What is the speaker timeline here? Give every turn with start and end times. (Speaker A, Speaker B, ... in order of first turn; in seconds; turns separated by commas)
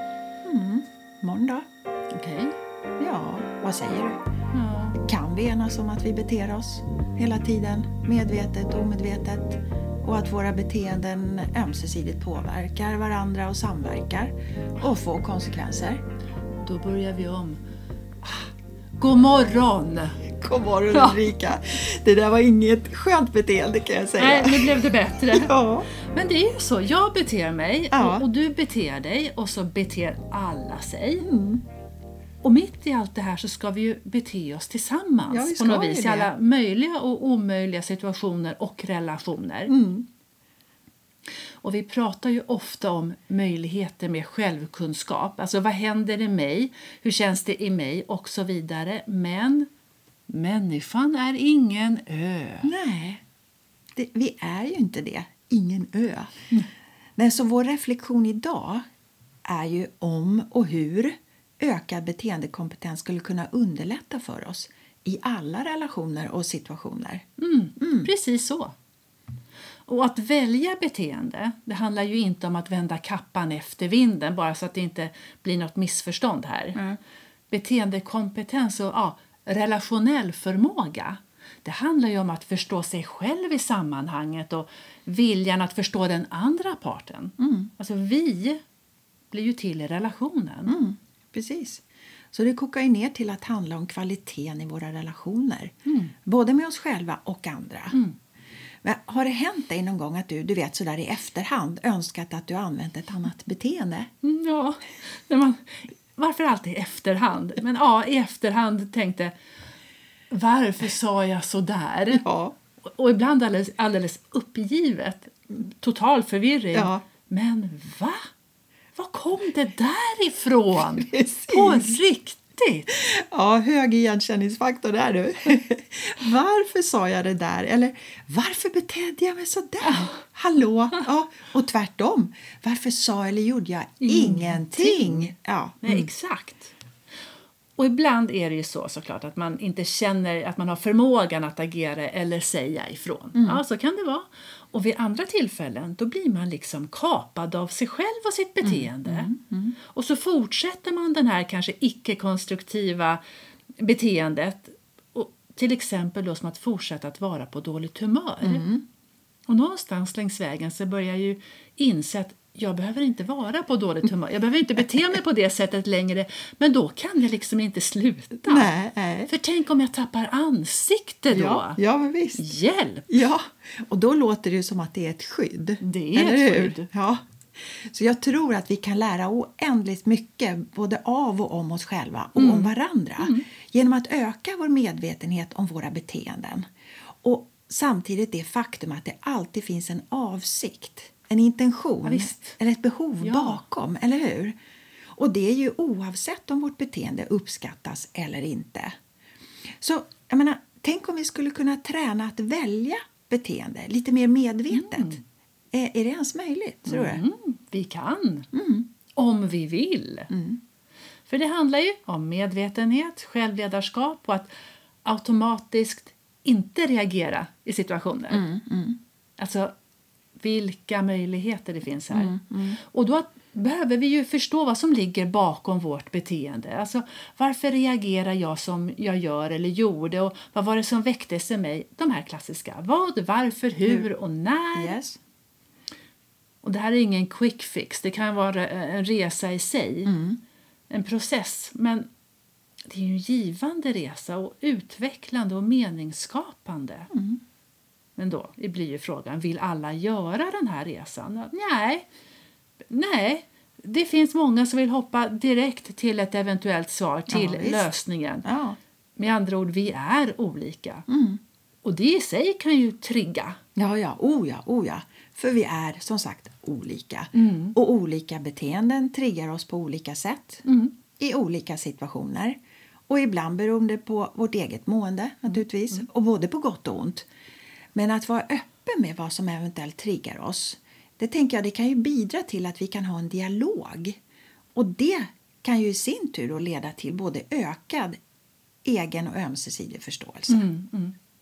Speaker A: 0.4-1.6, Speaker B: 2.1-2.5, Speaker A: 3.0-4.2, Speaker B: 4.5-5.0, Speaker A: 5.0-16.0, Speaker B: 16.6-17.6, Speaker B: 19.0-20.3, Speaker A: 20.3-25.9, Speaker B: 20.9-21.3, Speaker B: 24.2-31.2, Speaker A: 27.9-28.3, Speaker A: 31.2-31.6, Speaker B: 32.4-39.7, Speaker A: 35.3-36.3, Speaker A: 39.7-40.1, Speaker B: 41.6-49.7, Speaker B: 50.3-52.7, Speaker A: 52.6-53.2, Speaker A: 53.9-56.3, Speaker A: 57.2-58.8, Speaker A: 59.5-67.2, Speaker B: 67.4-68.7, Speaker A: 67.8-68.1, Speaker B: 69.8-76.8, Speaker B: 77.5-88.6, Speaker A: 87.4-87.7, Speaker B: 89.3-90.7, Speaker A: 90.7-95.7, Speaker B: 95.8-96.1, Speaker A: 96.2-98.0, Speaker A: 98.8-104.1, Speaker B: 104.2-109.3, Speaker B: 110.3-112.2, Speaker A: 112.1-112.5, Speaker B: 112.8-118.3, Speaker A: 116.7-117.0, Speaker B: 119.0-122.9, Speaker A: 120.8-122.0, Speaker A: 122.9-136.1, Speaker B: 129.8-130.2, Speaker B: 134.0-136.7, Speaker B: 137.8-149.3, Speaker A: 143.3-143.6, Speaker A: 148.6-149.8, Speaker B: 149.8-153.2, Speaker B: 153.8-158.6, Speaker A: 158.4-158.8, Speaker B: 159.5-168.7, Speaker A: 168.4-169.3, Speaker B: 169.3-171.8, Speaker A: 171.3-172.4, Speaker B: 172.3-173.3, Speaker A: 173.1-186.6, Speaker B: 175.8-176.9, Speaker B: 182.3-183.4, Speaker A: 187.2-194.5, Speaker B: 192.0-192.6, Speaker B: 193.2-193.6, Speaker A: 195.2-198.9, Speaker A: 199.8-205.2, Speaker B: 204.7-205.2, Speaker A: 205.7-207.2, Speaker B: 206.9-208.5, Speaker A: 208.5-208.9, Speaker B: 209.2-210.3, Speaker A: 210.3-210.6, Speaker B: 211.3-214.5, Speaker B: 215.0-218.4, Speaker A: 218.3-219.0, Speaker B: 219.4-219.7, Speaker B: 220.4-235.0, Speaker A: 222.1-222.8, Speaker A: 234.7-235.2, Speaker B: 236.6-240.1, Speaker A: 240.0-240.4, Speaker B: 240.9-242.1, Speaker B: 242.8-247.1, Speaker A: 247.1-247.4, Speaker B: 248.2-252.1, Speaker B: 252.9-258.4, Speaker A: 257.3-257.9, Speaker A: 258.4-258.8, Speaker B: 259.2-261.1, Speaker A: 261.1-261.4, Speaker B: 261.8-263.6, Speaker A: 263.8-270.6, Speaker B: 267.3-267.8, Speaker B: 270.6-270.9, Speaker A: 271.2-272.6, Speaker A: 273.1-277.2, Speaker A: 277.9-284.2, Speaker A: 284.7-288.2, Speaker A: 288.8-290.6, Speaker B: 290.5-291.1